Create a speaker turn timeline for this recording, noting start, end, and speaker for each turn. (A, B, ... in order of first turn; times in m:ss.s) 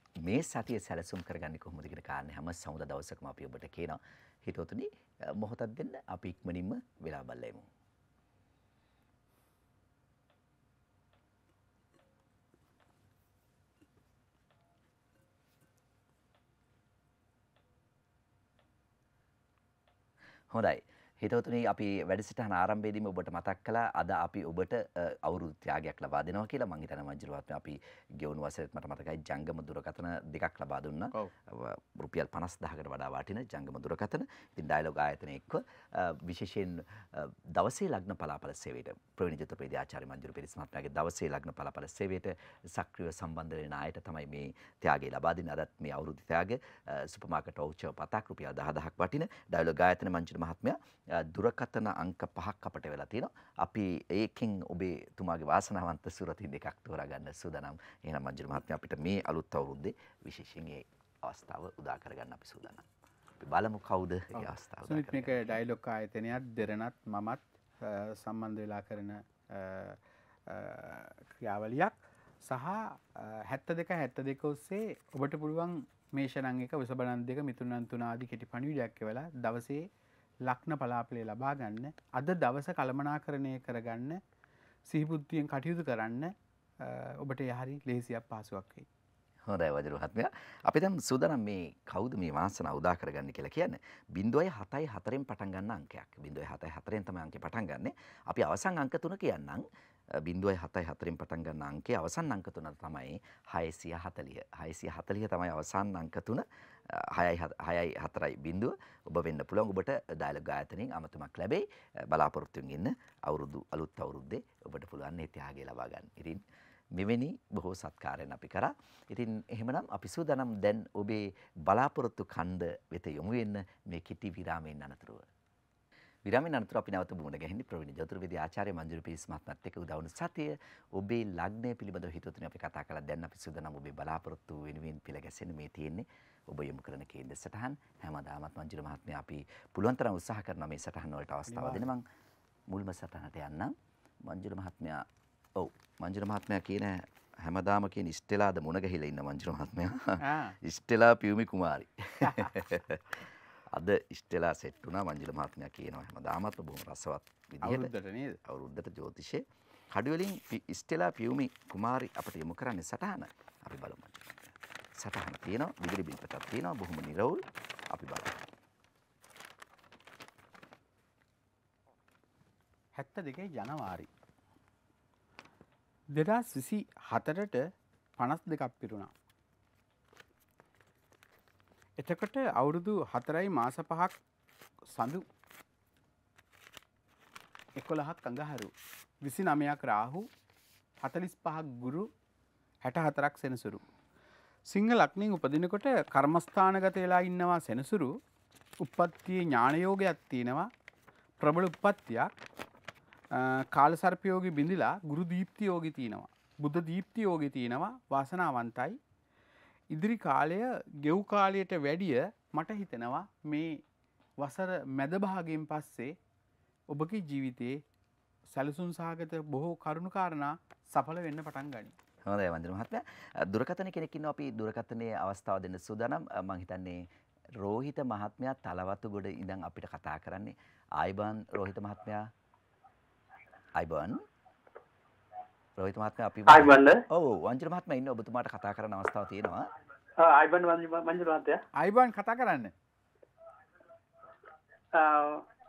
0:00.2-0:07.7 A
0:20.5-1:02.9 A
1:03.4-1:05.5 A
1:04.3-1:19.9 B
1:20.4-1:24.2 B
1:24.9-1:28.9 B
1:29.5-1:56.4 A
1:57.0-2:05.2 A
2:06.2-2:22.1 A
2:21.5-2:21.9 B
2:22.7-2:23.7 A
2:24.2-2:37.9 A
2:30.2-2:30.6 B
2:32.2-2:32.5 B
2:37.6-2:38.4 B
2:38.4-2:48.4 A
2:52.9-2:54.1 B
2:56.1-2:57.6 B
2:58.2-2:59.1 B
3:02.0-3:04.2 B
3:04.9-3:05.2 B
3:07.8-3:10.2 B
3:11.0-3:12.1 B
3:12.8-3:13.8 B
3:14.7-3:18.1 B
3:18.8-3:20.7 B
3:21.4-3:22.3 B
3:23.3-3:29.0 B
3:29.9-3:33.8 B
3:34.4-3:36.2 B
3:36.9-3:37.8 B
3:38.5-3:41.9 B
3:42.3-3:47.0 A
3:47.6-3:52.3 A
3:53.8-3:54.2 A
3:55.8-3:59.7 A
3:56.5-3:57.0 C
4:00.2-4:01.6 C
4:01.8-4:02.7 B
4:04.9-4:05.4 C